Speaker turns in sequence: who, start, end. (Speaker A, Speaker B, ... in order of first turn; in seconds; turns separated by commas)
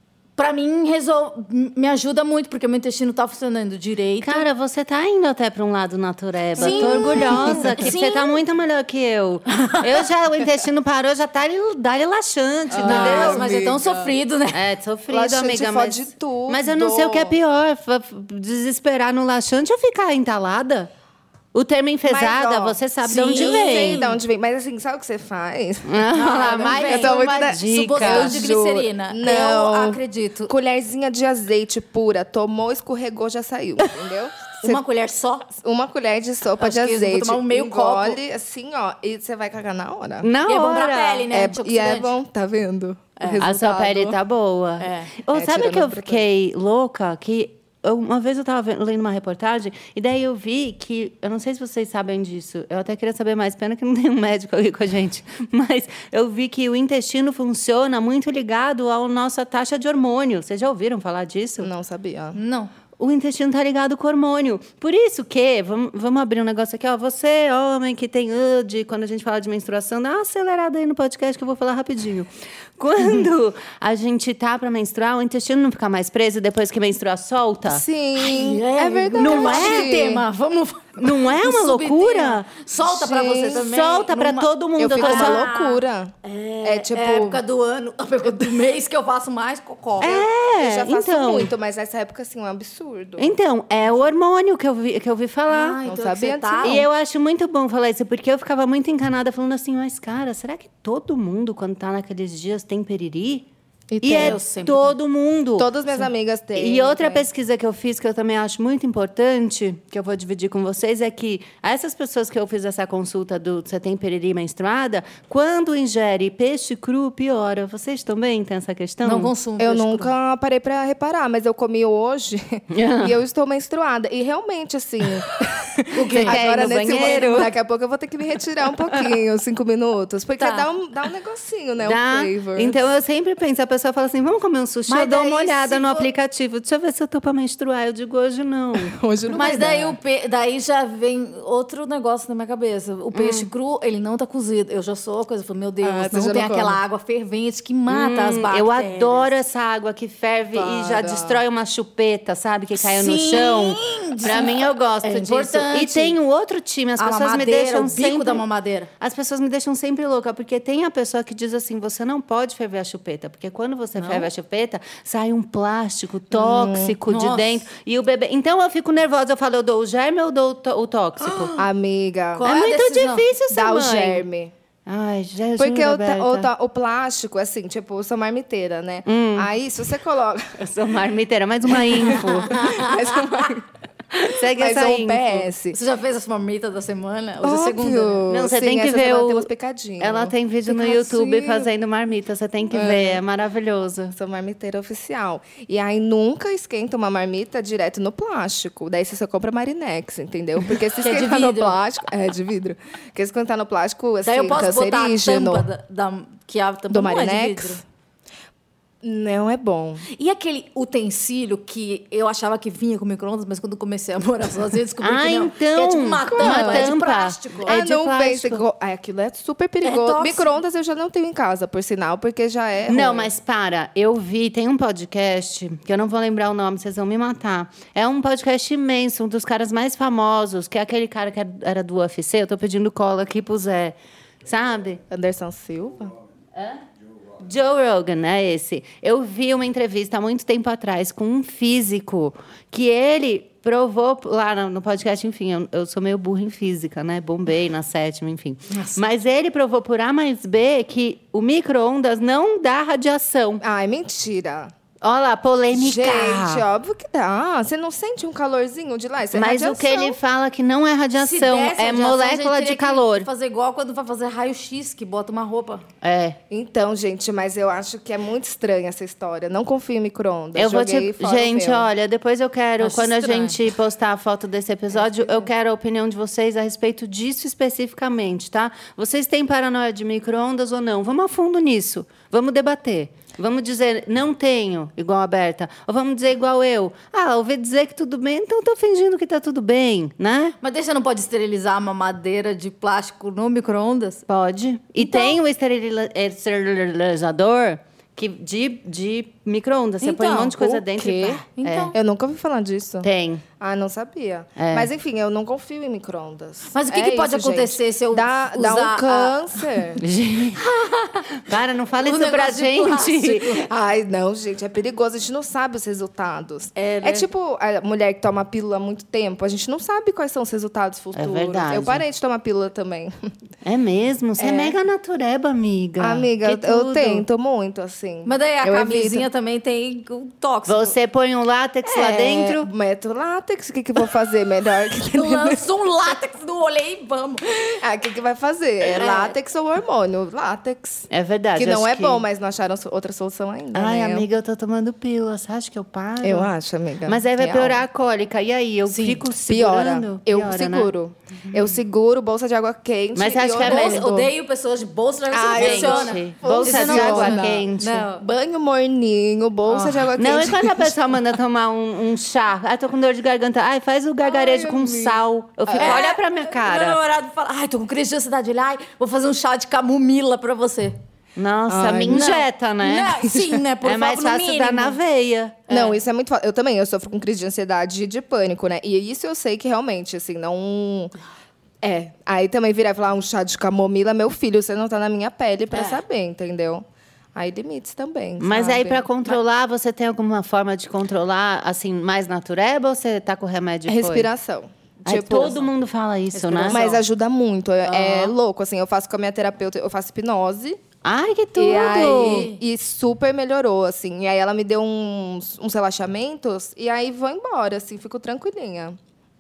Speaker A: 0.4-4.5, Speaker B: 4.2-13.5, Speaker C: 6.6-8.0, Speaker A: 6.6-8.4, Speaker A: 9.5-10.0, Speaker C: 12.7-14.2, Speaker A: 12.8-14.6, Speaker B: 14.5-20.9, Speaker C: 15.1-17.4, Speaker B: 21.5-24.1, Speaker C: 22.1-22.8, Speaker A: 23.0-24.2, Speaker C: 23.3-26.0, Speaker B: 25.9-28.4, Speaker A: 26.1-30.5, Speaker C: 26.6-34.8, Speaker A: 34.6-35.5, Speaker C: 35.5-40.3, Speaker A: 36.6-38.2, Speaker B: 40.2-41.3, Speaker A: 40.5-42.1, Speaker C: 41.3-44.2, Speaker A: 43.2-43.5, Speaker B: 43.4-61.7, Speaker A: 44.8-45.1, Speaker C: 45.3-46.3, Speaker C: 61.6-62.4, Speaker A: 62.4-62.7, Speaker B: 63.0-77.8, Speaker C: 77.7-80.2, Speaker A: 78.2-90.2, Speaker B: 79.2-79.9, Speaker B: 81.0-82.6, Speaker C: 82.8-83.7, Speaker B: 83.5-85.5, Speaker C: 84.8-87.4, Speaker B: 90.0-91.5, Speaker C: 90.0-93.4, Speaker B: 93.2-95.8, Speaker A: 95.5-96.8, Speaker C: 95.8-96.8, Speaker B: 96.6-103.5, Speaker C: 103.9-104.4, Speaker B: 104.0-105.7, Speaker A: 104.1-105.0, Speaker C: 105.6-107.3, Speaker B: 106.5-119.3, Speaker A: 119.0-120.1, Speaker C: 119.6-132.8, Speaker B: 122.7-123.2, Speaker A: 125.9-127.5, Speaker B: 126.2-127.5, Speaker A: 130.4-130.7, Speaker B: 131.8-139.0, Speaker A: 134.9-136.1, Speaker C: 138.8-140.0, Speaker A: 139.3-149.3, Speaker B: 143.1-143.5, Speaker C: 145.8-146.8, Speaker B: 147.9-158.4, Speaker C: 150.5-151.4, Speaker A: 152.8-156.2, Speaker A: 157.0-158.9, Speaker B: 159.0-171.6, Speaker A: 164.0-164.3, Speaker C: 166.3-167.0, Speaker A: 167.1-167.7, Speaker A: 171.2-171.6, Speaker C: 171.6-172.5, Speaker A: 172.3-173.3, Speaker B: 172.4-174.2, Speaker C: 173.5-174.5, Speaker B: 174.9-176.5, Speaker C: 175.6-180.6, Speaker B: 179.1-179.5, Speaker B: 180.6-182.8, Speaker C: 181.7-183.7, Speaker A: 182.1-183.5, Speaker C: 184.2-185.8, Speaker B: 184.2-185.5, Speaker A: 185.7-188.2, Speaker C: 187.4-191.7, Speaker B: 188.3-189.5, Speaker B: 190.0-194.1, Speaker C: 192.7-193.2, Speaker C: 194.1-205.7, Speaker A: 201.0-201.8, Speaker A: 204.2-207.8, Speaker C: 206.9-207.8, Speaker C: 209.0-210.1, Speaker A: 210.1-217.8, Speaker B: 215.0-218.6, Speaker C: 216.3-216.9, Speaker C: 217.7-223.3, Speaker A: 219.8-220.6, Speaker B: 222.9-235.0, Speaker C: 235.1-236.1, Speaker B: 236.6-236.8, Speaker B: 237.4-253.6, Speaker A: 248.7-249.0, Speaker C: 253.6-254.7, Speaker B: 255.0-256.6, Speaker C: 255.7-260.2, Speaker B: 259.3-263.3, Speaker A: 261.2-265.9, Speaker B: 266.0-266.4, Speaker C: 266.5-271.9, Speaker B: 270.6-290.6, Speaker A: 272.8-273.6, Speaker C: 275.2-275.4, Speaker A: 290.6-294.2, Speaker B: 294.3-301.9, Speaker A: 295.0-295.4, Speaker A: 300.0-300.8, Speaker C: 300.6-303.1, Speaker A: 301.6-301.9, Speaker B: 303.0-303.4, Speaker C: 303.6-310.0, Speaker B: 304.6-304.9, Speaker A: 306.7-309.6, Speaker B: 310.0-310.6, Speaker A: 310.6-311.3, Speaker B: 311.3-313.6, Speaker A: 312.0-313.7, Speaker C: 313.6-323.1, Speaker A: 316.8-317.3, Speaker B: 321.1-322.0, Speaker B: 323.6-327.2, Speaker C: 324.4-324.8, Speaker C: 326.0-329.3, Speaker A: 328.2-331.0, Speaker B: 330.7-332.7, Speaker C: 331.9-335.6, Speaker A: 335.1-337.6, Speaker C: 337.6-344.3, Speaker A: 338.9-339.3, Speaker B: 341.1-342.2, Speaker B: 343.7-346.5, Speaker C: 346.2-347.8, Speaker B: 347.1-350.9, Speaker A: 348.9-349.2, Speaker C: 349.4-354.3, Speaker B: 353.1-354.0, Speaker A: 353.6-358.2, Speaker C: 355.3-361.0, Speaker B: 355.6-358.1, Speaker A: 359.7-360.0, Speaker B: 360.1-367.0, Speaker C: 364.2-366.1, Speaker A: 365.8-370.9, Speaker B: 371.4-373.2, Speaker C: 371.7-372.3, Speaker A: 372.1-375.0, Speaker B: 373.8-375.6, Speaker A: 375.7-376.0, Speaker C: 375.7-381.1, Speaker C: 381.8-386.8, Speaker C: 387.4-389.4, Speaker B: 388.4-394.3, Speaker C: 393.9-395.6, Speaker B: 395.1-396.9, Speaker A: 395.3-395.6, Speaker A: 396.3-397.0, Speaker C: 396.7-400.8, Speaker A: 397.9-398.3, Speaker B: 401.0-402.5, Speaker C: 401.6-409.0, Speaker A: 402.0-402.6